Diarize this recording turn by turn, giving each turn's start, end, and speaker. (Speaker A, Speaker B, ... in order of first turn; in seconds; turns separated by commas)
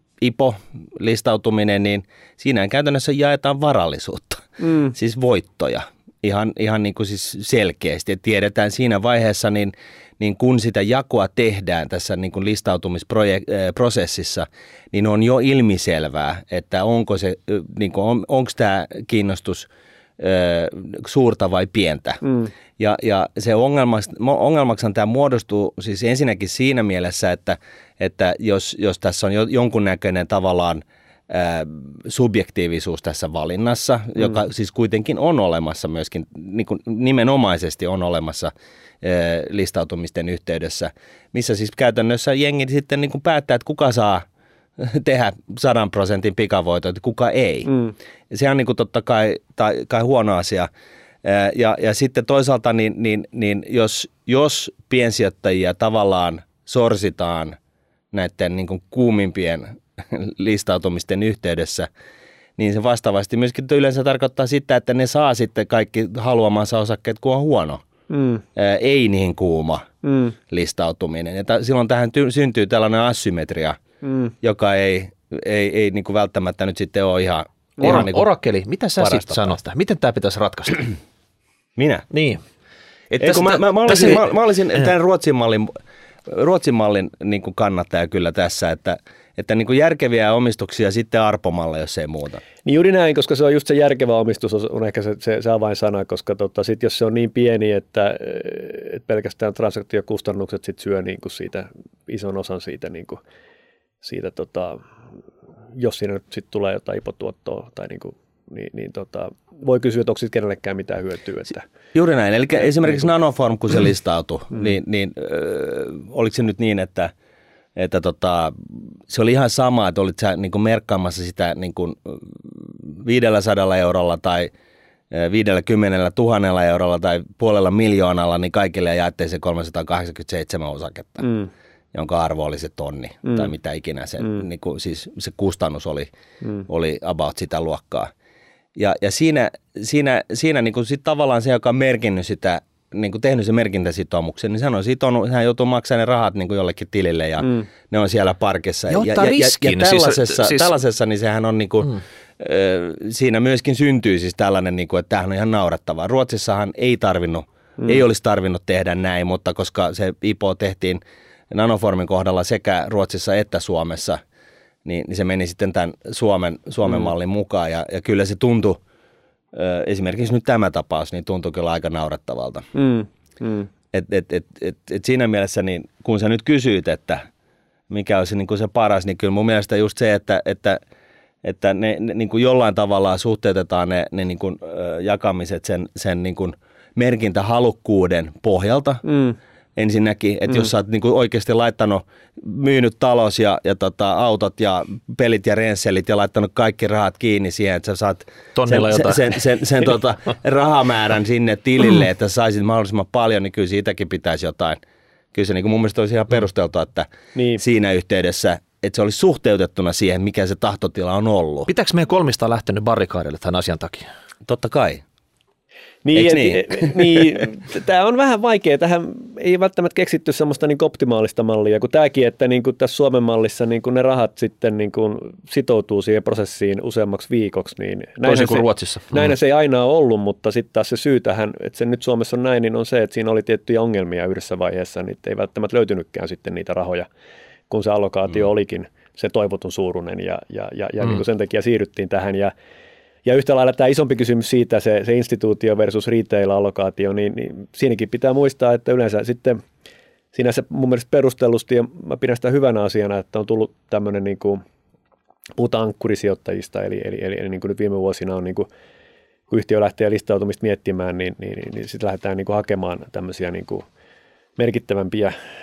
Speaker A: 0.2-19.7, Speaker B: 4.6-4.9, Speaker A: 20.2-22.2, Speaker A: 22.8-44.2, Speaker A: 44.8-47.7, Speaker B: 47.7-47.9, Speaker A: 48.3-50.7, Speaker A: 51.2-57.6, Speaker A: 58.1-61.9, Speaker A: 62.6-67.8, Speaker B: 68.1-68.4, Speaker A: 68.5-69.9, Speaker B: 70.0-70.3, Speaker A: 70.5-73.8, Speaker B: 74.0-74.3, Speaker A: 74.4-78.2, Speaker C: 77.8-80.9, Speaker A: 79.0-79.5, Speaker A: 81.8-82.1, Speaker C: 82.1-82.4, Speaker C: 83.1-84.9, Speaker A: 83.2-85.7, Speaker A: 86.3-92.4, Speaker B: 92.6-103.2, Speaker B: 104.0-104.8, Speaker B: 105.8-111.7, Speaker A: 111.9-117.1, Speaker A: 117.8-124.5, Speaker A: 125.1-131.3, Speaker B: 131.2-131.5, Speaker A: 131.9-136.1, Speaker A: 136.7-138.1, Speaker A: 138.8-164.2, Speaker C: 148.9-150.7, Speaker A: 164.8-168.8, Speaker A: 169.5-172.7, Speaker B: 172.7-173.7, Speaker A: 173.9-177.2, Speaker A: 177.9-180.8, Speaker A: 181.4-189.0, Speaker B: 189.1-189.3, Speaker A: 189.8-204.8, Speaker C: 198.5-199.4, Speaker A: 205.3-211.7, Speaker B: 207.3-207.6, Speaker C: 211.7-214.1, Speaker A: 214.4-215.0, Speaker B: 216.0-237.1, Speaker A: 216.2-217.1, Speaker C: 228.2-229.3, Speaker B: 237.7-242.5, Speaker B: 243.2-249.6, Speaker B: 250.3-254.6, Speaker B: 255.6-258.7, Speaker B: 259.5-263.9, Speaker B: 264.6-265.3